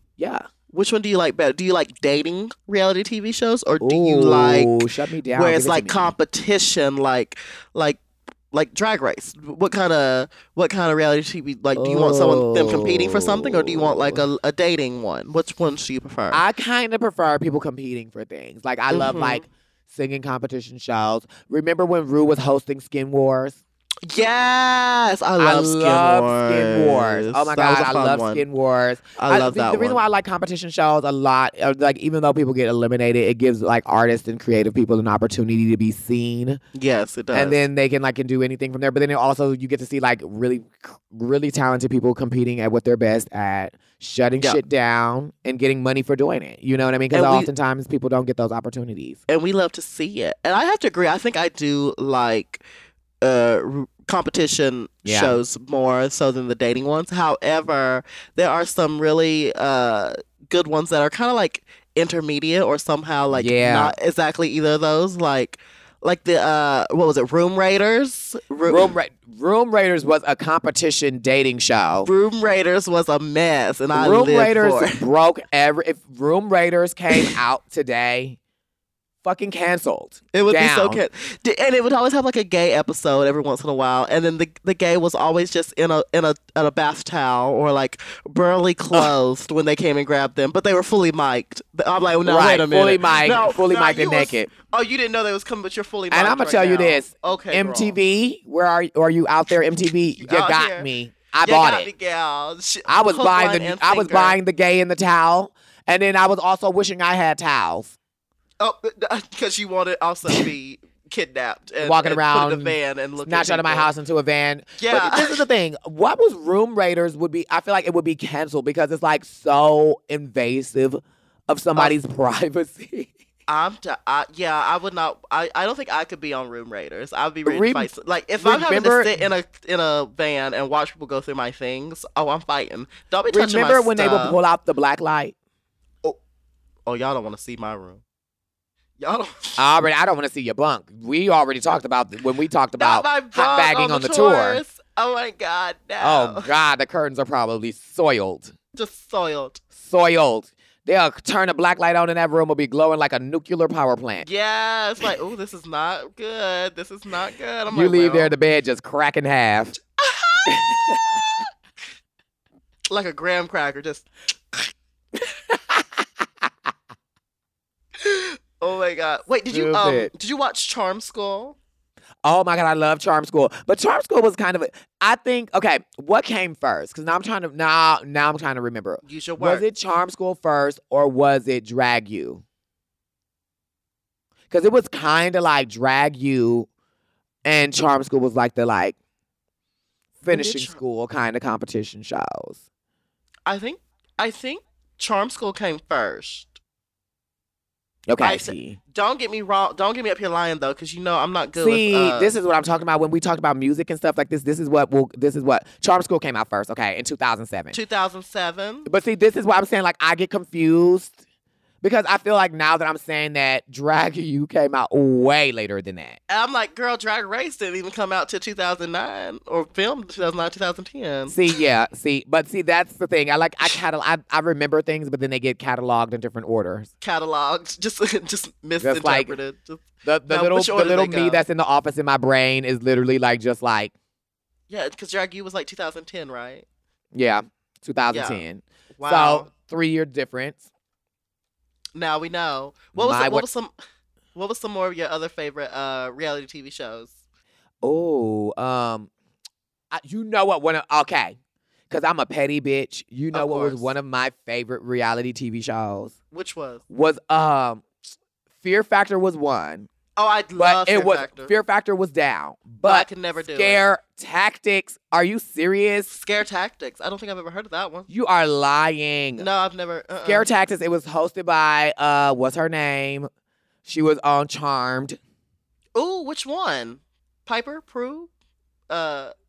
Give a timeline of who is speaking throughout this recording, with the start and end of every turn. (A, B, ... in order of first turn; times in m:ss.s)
0:00.2-0:00.4 A
0:00.7-0:04.7 B
0:03.8-0:06.1 A
0:05.3-0:08.0 B
0:08.5-0:16.4 B
0:11.7-0:14.2 A
0:16.3-0:23.6 A
0:18.9-0:19.4 B
0:24.1-0:28.4 B
0:25.4-0:36.6 A
0:29.2-0:30.0 B
0:36.7-0:37.6 B
0:37.3-0:49.2 A
0:47.1-0:47.5 B
0:49.3-0:52.6 B
0:53.2-1:08.9 B
0:55.0-0:55.4 A
1:03.3-1:03.9 A
1:08.7-1:12.1 A
1:12.0-1:15.0 B
1:13.9-1:18.4 A
1:19.2-1:21.0 A
1:20.3-1:38.0 B
1:32.2-1:34.5 A
1:36.1-1:41.9 A
1:40.2-1:40.9 B
1:41.4-1:44.4 B
1:42.9-1:47.9 A
1:48.6-1:53.9 B
1:51.8-2:03.1 A
1:54.8-1:55.4 B
2:03.5-2:14.4 B
2:07.4-2:09.1 A
2:13.3-2:15.3 A
2:16.8-2:18.0 B
2:19.0-2:19.6 B
2:19.6-2:24.6 A
2:22.8-2:26.5 B
2:26.0-2:28.5 A
2:28.7-2:29.6 B
2:29.8-2:34.3 A
2:34.2-2:38.3 B
2:37.7-2:39.8 A
2:40.0-2:40.6 B
2:40.5-2:41.2 A
2:42.9-2:44.1 B
2:45.5-2:46.5 A
2:48.0-2:51.6 B
2:49.5-2:50.1 A
2:52.2-3:02.4 A
2:59.0-2:59.6 B
3:04.5-3:06.7 A
3:07.4-3:09.0 A
3:10.2-3:12.6 A
3:10.3-3:10.8 B
3:13.4-3:16.5 B
3:18.1-3:18.8 A
3:18.2-3:22.3 B
3:21.6-3:27.8 A
3:27.7-3:28.9 B
3:28.8-3:31.1 A
3:31.8-3:36.2 A
3:36.3-3:41.4 B
3:41.3-3:46.9 A
3:47.0-3:51.4 B
3:48.8-3:49.4 A
3:50.0-3:53.9 A
3:54.7-3:56.6 B
3:57.1-4:00.6 A
3:58.1-3:58.4 B
3:59.0-3:59.5 B
4:01.9-4:03.7 B
4:02.9-4:03.4 A
4:04.3-4:07.1 B
4:07.8-4:09.1 A
4:09.9-4:11.4 A
4:11.9-4:16.1 A
4:13.3-4:13.9 B
4:16.3-4:16.8 B
4:16.9-4:17.9 A
4:18.6-4:19.9 A
4:20.2-4:21.5 B
4:20.6-4:26.1 A
4:22.8-4:23.8 B
4:26.1-4:28.1 B
4:28.1-4:29.5 A
4:29.4-4:30.5 B
4:30.2-4:33.3 A
4:33.8-4:35.2 A
4:35.9-4:38.3 B
4:38.9-4:39.3 B